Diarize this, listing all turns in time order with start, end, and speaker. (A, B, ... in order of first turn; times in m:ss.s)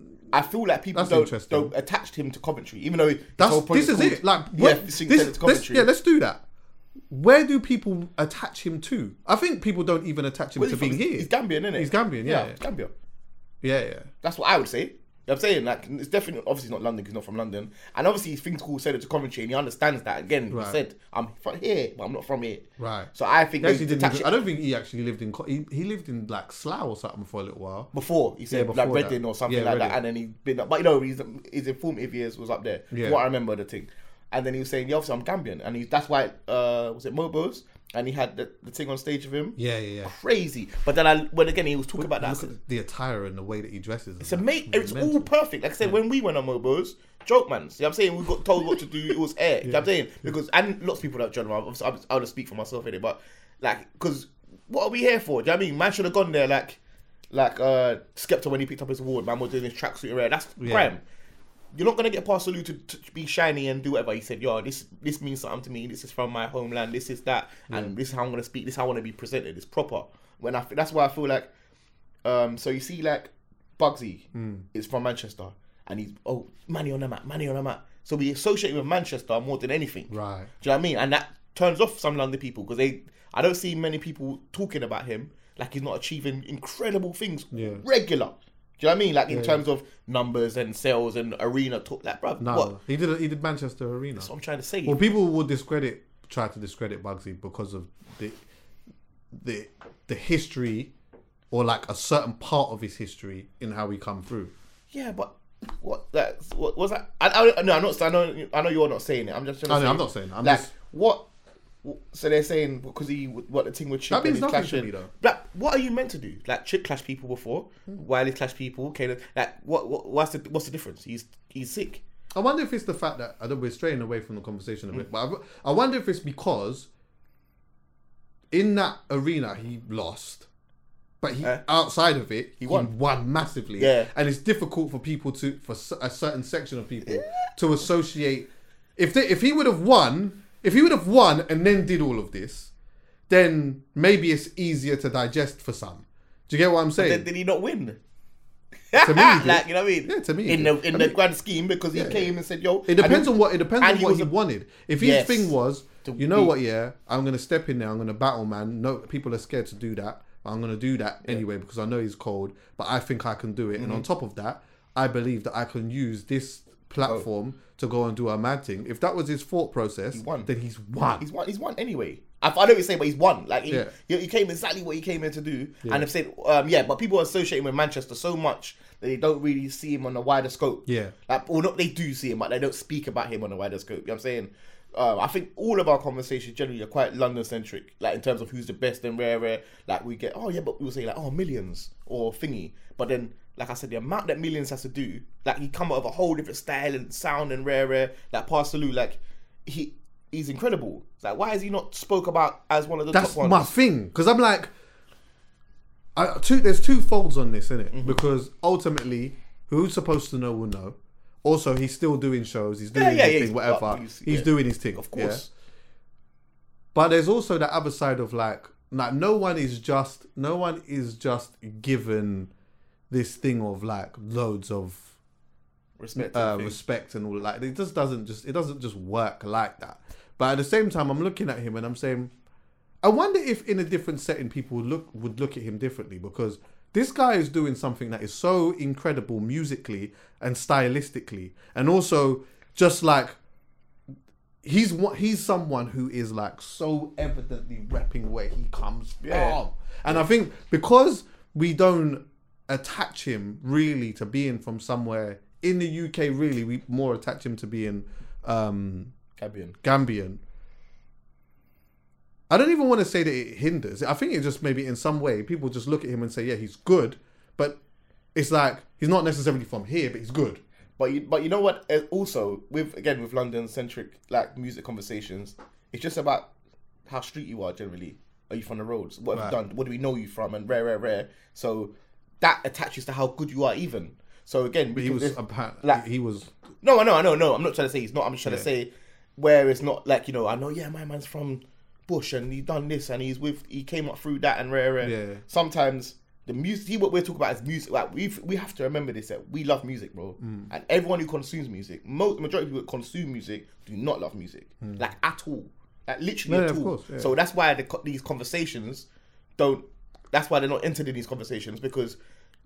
0:00.3-0:05.9 A
0:00.9-0:01.7 B
0:03.4-0:06.4 B
0:07.1-0:12.6 B
0:10.6-0:12.9 A
0:13.6-0:14.1 B
0:14.2-0:24.4 A
0:20.5-0:20.8 B
0:22.8-0:27.9 B
0:27.9-0:42.5 A
0:28.5-0:30.0 B
0:32.9-0:33.2 B
0:39.6-0:40.1 B
0:42.0-0:45.3 B
0:44.2-0:56.8 A
0:49.6-0:50.3 B
0:57.3-1:01.0 A
1:00.6-1:00.9 B
1:01.7-1:11.5 A
1:12.2-1:32.8 A
1:14.3-1:14.7 B
1:20.1-1:20.5 B
1:27.5-1:27.8 B
1:29.3-1:29.6 B
1:32.4-1:34.3 B
1:34.2-1:35.0 A
1:34.8-1:38.4 B
1:39.3-1:40.9 B
1:41.5-1:44.5 B
1:44.9-1:51.3 A
1:49.7-1:50.7 B
1:51.8-2:02.0 A
1:54.1-1:55.1 B
2:02.3-2:06.9 B
2:08.5-2:10.5 B
2:11.2-2:22.7 B
2:12.6-2:12.9 A
2:13.8-2:14.1 A
2:17.1-2:17.5 A
2:23.3-2:27.3 B
2:27.0-2:28.0 A
2:28.9-2:34.3 A
2:29.0-2:31.2 B
2:31.9-2:32.3 B
2:32.9-2:51.3 B
2:35.0-2:36.6 A
2:43.8-2:44.1 A
2:47.0-2:47.3 A
2:50.1-2:50.5 A
2:51.2-3:23.7 A
2:53.7-2:53.9 B
3:00.9-3:01.1 B
3:23.1-3:24.7 B
3:26.2-3:35.5 B
3:27.9-3:28.2 A
3:33.0-3:35.5 A
3:36.9-3:42.5 B
3:43.1-3:45.1 B
3:46.0-3:46.8 A
3:46.2-3:52.3 B
3:53.0-4:03.4 B
4:04.6-4:19.1 B
4:09.2-4:10.2 A
4:19.4-4:19.8 A
4:19.8-4:20.4 B
4:22.5-4:27.8 B
4:28.4-4:30.6 B
4:31.0-4:36.5 A
4:37.1-4:46.0 A
4:44.9-4:46.5 B
4:46.8-5:09.1 A
4:55.0-4:55.4 B
5:00.4-5:00.7 B
5:06.5-5:07.3 B
5:09.6-5:12.2 A